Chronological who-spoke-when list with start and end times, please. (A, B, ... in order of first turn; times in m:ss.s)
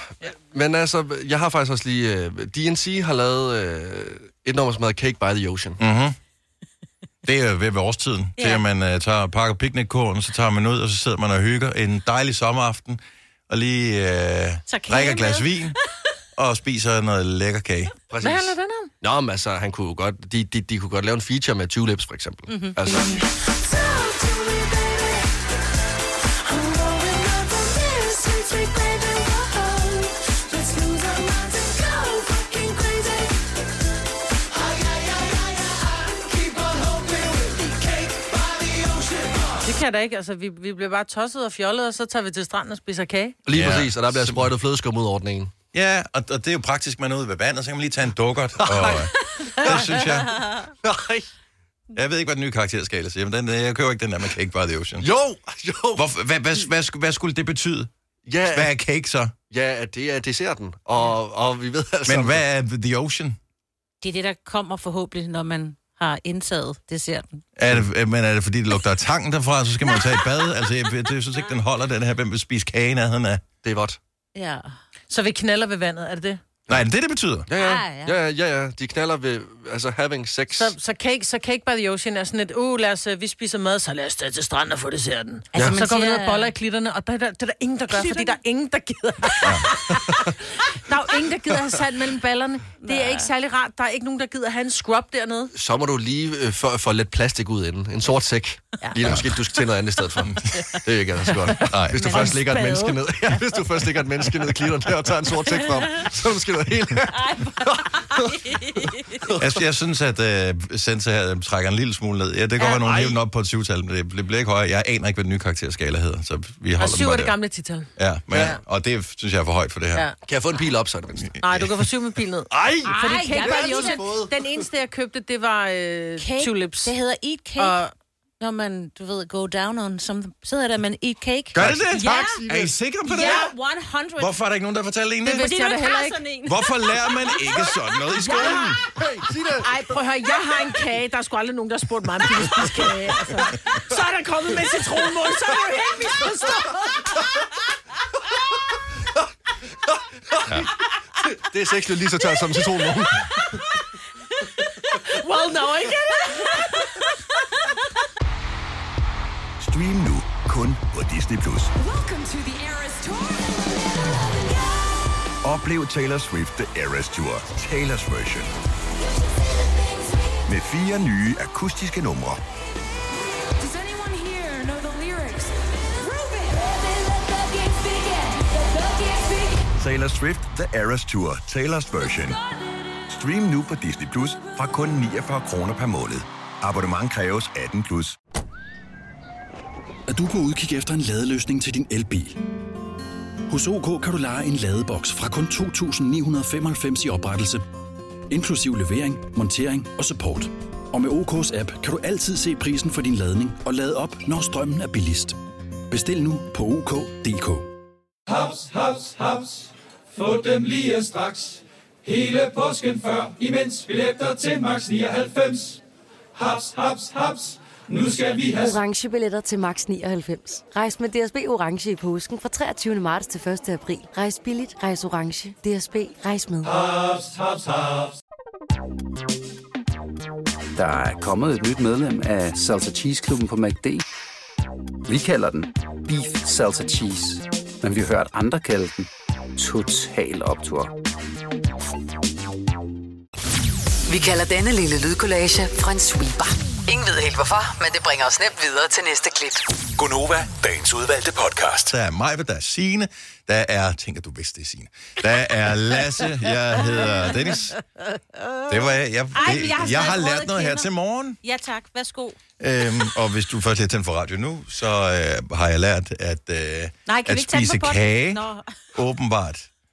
0:00.2-0:05.8 A
0:05.8-0:06.2 B
0:07.2-0:15.8 B
0:08.4-0:08.6 C
0:14.9-0:15.4 C
0:16.4-0:17.9 B
0:18.1-0:23.2 A
0:18.2-0:18.9 D
0:22.5-0:22.8 C
0:22.9-0:25.4 E
0:26.4-0:33.6 E
0:34.5-0:39.6 E
0:39.6-0:43.4 D
0:43.5-0:45.5 A
0:43.5-0:44.5 B
0:45.7-0:50.4 B
0:48.6-0:50.1 A
0:50.8-0:51.3 A
0:51.9-0:55.1 B
0:55.0-0:56.0 A
0:56.0-0:57.9 B
0:58.2-0:58.7 A
0:58.5-0:59.3 B
0:59.5-1:02.4 A
1:02.1-1:03.4 B
1:04.0-1:07.4 C
1:07.6-1:13.4 B
1:13.6-1:14.0 A
1:14.4-1:14.8 C
1:15.1-1:16.4 D
1:16.7-1:17.5 B
1:17.5-1:20.8 A
1:17.6-1:18.2 C
1:20.6-1:35.5 D
1:25.5-1:25.8 A
1:25.5-1:26.5 C
1:27.9-1:28.4 C
1:32.8-1:33.3 C
1:35.6-1:48.6 A
1:39.0-1:39.4 B
1:40.2-1:40.4 B
1:41.6-1:42.3 B
1:41.6-1:42.8 D
1:42.0-1:42.9 C
1:47.1-1:49.2 C
1:49.2-1:49.6 A
1:49.4-1:57.4 B
1:52.8-1:53.2 A
1:56.8-1:58.6 D
1:58.0-2:00.1 B
1:58.3-1:58.6 A
2:00.2-2:01.4 A
2:01.2-2:01.7 B
2:01.4-2:06.9 D
2:02.5-2:04.5 A
2:02.9-2:04.1 C
2:06.2-2:07.8 C
2:07.6-2:07.9 D
2:08.4-2:12.4 C
2:11.5-2:13.5 B
2:12.0-2:12.4 D
2:12.4-2:12.7 A
2:13.1-2:14.3 C
2:14.2-2:15.5 B
2:15.2-2:16.2 D
2:15.4-2:16.7 C
2:16.4-2:18.8 B
2:18.2-2:18.7 D
2:18.3-2:19.7 A
2:19.6-2:27.2 D
2:30.3-2:30.7 A
2:31.2-2:33.4 A
2:35.1-2:36.5 D
2:39.6-2:41.7 F
2:41.8-2:45.2 E
2:45.4-2:48.5 F
2:49.3-2:50.4 E
2:50.5-2:52.4 F
2:53.4-2:59.7 E
2:59.8-3:02.4 F
3:03.1-3:08.2 F
3:10.1-3:12.4 G
3:13.5-3:17.6 G
3:18.3-3:25.4 G
3:25.9-3:27.7 G
3:30.4-3:31.3 H
3:32.1-3:32.9 H
3:33.6-3:35.0 H
3:38.0-3:47.3 I
3:50.8-3:54.0 J
3:55.1-4:00.9 J
4:04.1-4:09.6 K
4:10.0-4:11.9 F
4:11.9-4:17.8 B
4:18.7-4:21.4 B
4:19.3-4:20.9 C
4:21.4-4:22.4 C
4:22.6-4:29.7 B
4:27.1-4:28.7 C